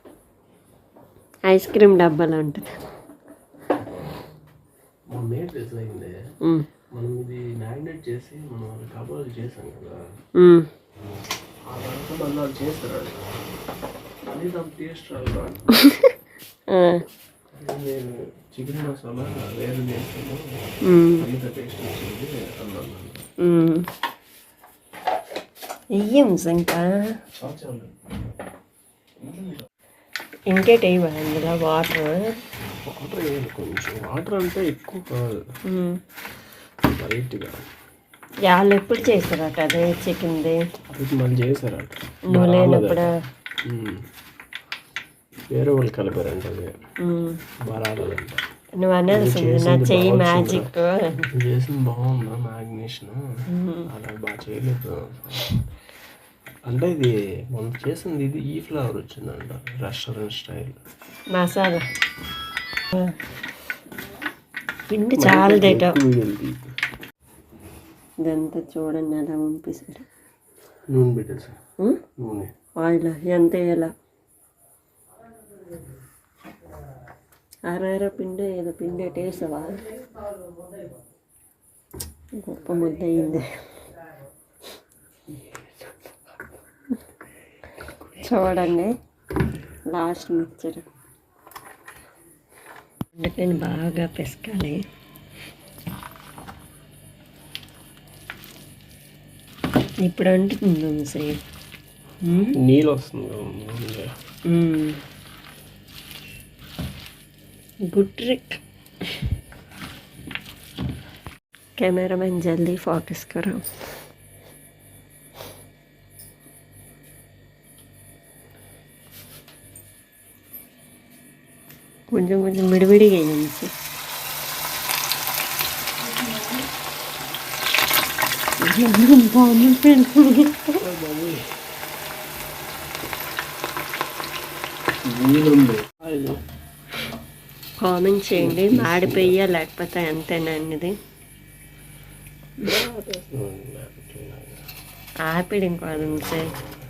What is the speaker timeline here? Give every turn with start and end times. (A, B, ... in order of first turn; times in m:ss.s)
0:01.5-0:02.8 A
0:05.1-0:06.2 B
0:06.9-0:10.0 B
0:10.4-0:10.7 A
0:11.7-0:13.3 B
0:14.3-0:15.7 B
0:15.7-0:16.1 A
0:16.7-0:17.0 A
0:17.5-0:20.6 B
0:20.8-0:21.3 A
0:21.2-0:23.2 B
0:23.4-0:23.8 A
0:25.9-0:27.1 A
0:27.4-0:28.0 B
0:29.2-0:29.7 B
0:30.5-0:32.4 A
0:32.9-0:35.4 B
0:35.7-0:36.0 A
0:36.9-0:37.7 B
0:38.5-0:40.6 A
0:40.9-0:43.1 B
0:42.3-0:43.1 A
0:43.7-0:44.0 B
0:45.5-0:46.7 B
0:47.0-0:47.4 A
0:47.7-0:48.4 B
0:48.8-0:51.3 A
0:49.1-0:50.7 B
0:51.3-0:55.6 B
0:53.5-0:53.9 A
0:56.7-1:00.8 B
1:01.3-1:01.8 A
1:04.9-1:06.0 A
1:05.2-1:06.7 B
1:08.2-1:10.1 A
1:10.9-1:11.6 B
1:12.2-1:12.5 B
1:12.8-1:13.9 A
1:17.7-1:19.8 A
1:22.4-1:23.4 A
1:25.3-1:26.1 B
1:28.2-1:28.9 A
1:29.9-1:30.9 A
1:33.2-1:34.8 A
1:40.0-1:41.4 A
1:42.2-1:42.6 A
1:42.6-1:44.2 B
1:44.5-1:45.0 A
1:47.9-1:48.6 A
1:51.8-1:53.7 A
2:02.1-2:03.7 A
2:08.6-2:10.8 A
2:10.8-2:11.5 B
2:15.0-2:16.4 B
2:17.8-2:20.9 A
2:18.3-2:19.4 B
2:22.6-2:24.6 B
2:25.3-2:26.5 A